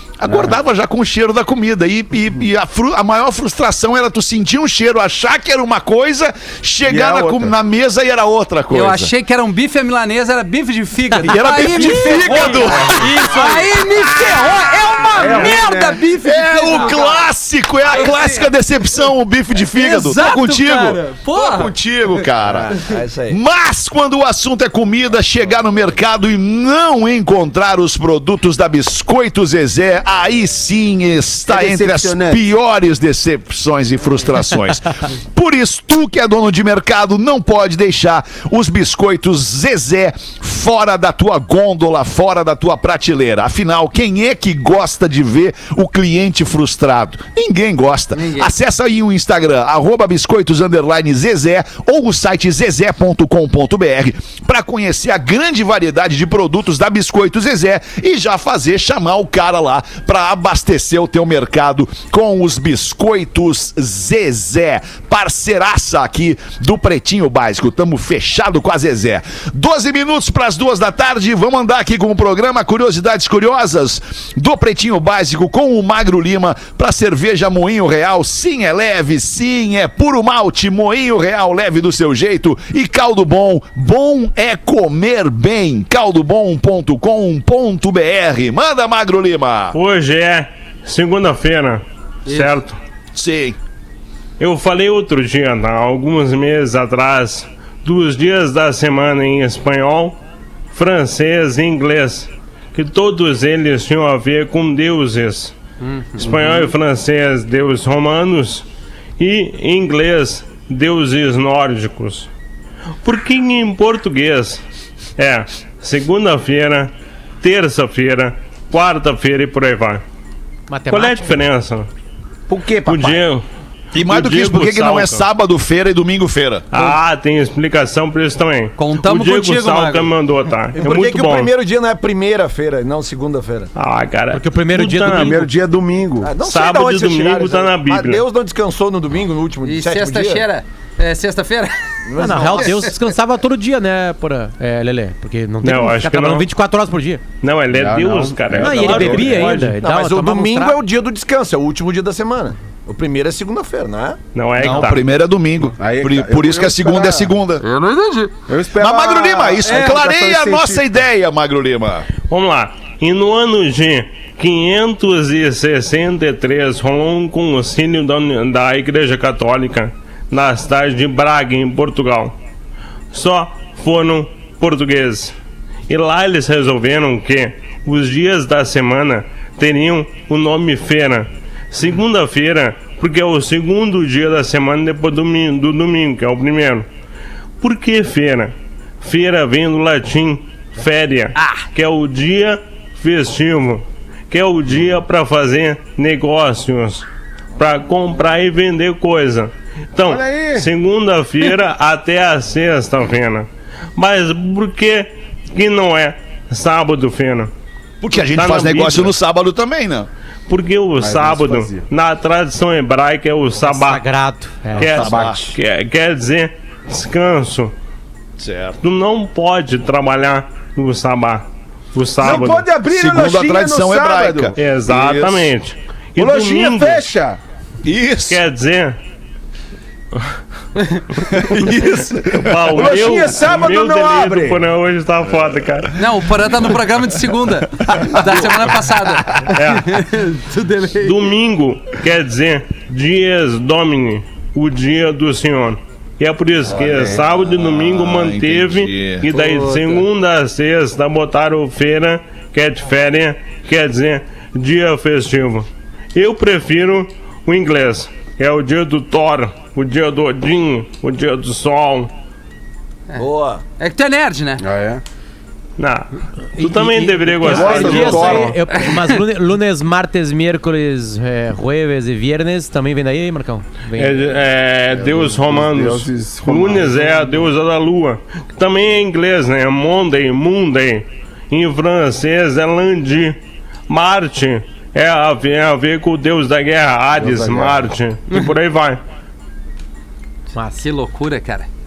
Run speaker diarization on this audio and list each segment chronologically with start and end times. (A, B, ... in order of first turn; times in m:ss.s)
0:00.2-0:09.1 A
0:00.3-0:00.6 B
0:06.8-0:07.6 B
0:08.7-0:17.3 C
0:11.2-0:13.0 A
0:12.6-0:13.8 D
0:15.1-0:16.0 B
0:15.3-0:15.6 A
0:16.2-0:22.7 A
0:17.9-0:18.5 C
0:19.7-0:21.7 C
0:22.4-0:23.4 E
0:23.3-1:29.8 A
0:31.5-0:32.4 B
0:48.2-0:48.5 C
1:29.7-1:32.8 F
1:32.3-1:32.6 C
1:33.1-1:33.6 A
1:34.4-1:40.2 F
1:40.7-1:45.6 F
1:45.8-1:46.7 C
1:46.2-1:48.7 F
1:49.2-1:52.3 F
1:53.0-1:54.6 F
1:55.2-1:56.9 F
1:57.4-2:00.0 F
2:00.7-2:01.4 D
2:00.9-2:01.9 F
2:02.5-2:03.2 B
2:02.8-2:03.4 F
2:03.9-2:06.7 A
2:04.0-2:05.2 F
2:06.7-2:11.5 F
2:08.8-2:10.1 C
2:10.7-2:13.7 E
2:13.8-2:15.4 F
2:14.3-2:15.5 D
2:15.1-2:16.3 B
2:16.2-2:20.5 E
2:16.4-2:18.2 F
2:19.6-2:22.8 C
2:22.0-2:22.8 E
2:22.2-2:27.2 D
2:25.6-2:26.4 F
2:27.4-2:29.8 F
2:27.7-2:29.6 B
2:28.6-2:30.8 D
2:29.7-2:34.2 E
2:34.4-2:35.0 F
2:34.6-2:37.7 A
2:35.8-2:37.3 B
2:37.6-2:38.3 C
2:38.5-2:40.8 B
2:38.8-2:42.1 A
2:39.6-2:40.0 C
2:42.3-2:52.4 F
2:53.1-2:55.3 F
2:55.9-3:06.9 F
3:07.6-3:27.5 F
3:11.4-3:11.6 C
3:20.1-3:20.7 B
3:28.0-3:30.1 A
3:28.2-3:29.1 F
3:30.5-3:34.0 F
3:31.0-3:31.8 B
3:33.6-3:35.0 D
3:34.8-3:37.7 F
3:34.8-3:35.5 A
3:34.8-3:35.5 B
3:38.4-3:38.8 A
3:38.8-3:42.7 F
3:42.2-3:44.6 B
3:42.9-3:45.5 A
3:44.6-3:47.0 F
3:46.2-3:47.4 B
3:47.8-3:48.4 A
3:48.2-3:49.0 F
3:51.3-3:53.2 A
3:52.3-3:55.9 F
3:52.7-3:54.6 B
3:56.0-4:01.2 C
3:57.9-3:58.7 A
3:59.5-4:00.0 F
4:01.0-4:22.1 F
4:06.7-4:09.3 A
4:09.3-4:10.0 C
4:23.2-4:23.6 E
4:23.8-4:24.6 C
4:24.6-4:25.0 B
4:25.8-4:28.5 F
4:26.6-4:34.2 D
4:27.4-4:28.6 B
4:28.8-4:29.1 C
4:34.0-4:43.4 F
4:34.9-4:37.4 B
4:43.9-4:49.0 F
4:47.1-4:47.9 B
4:50.6-4:50.8 D
4:50.8-4:51.7 C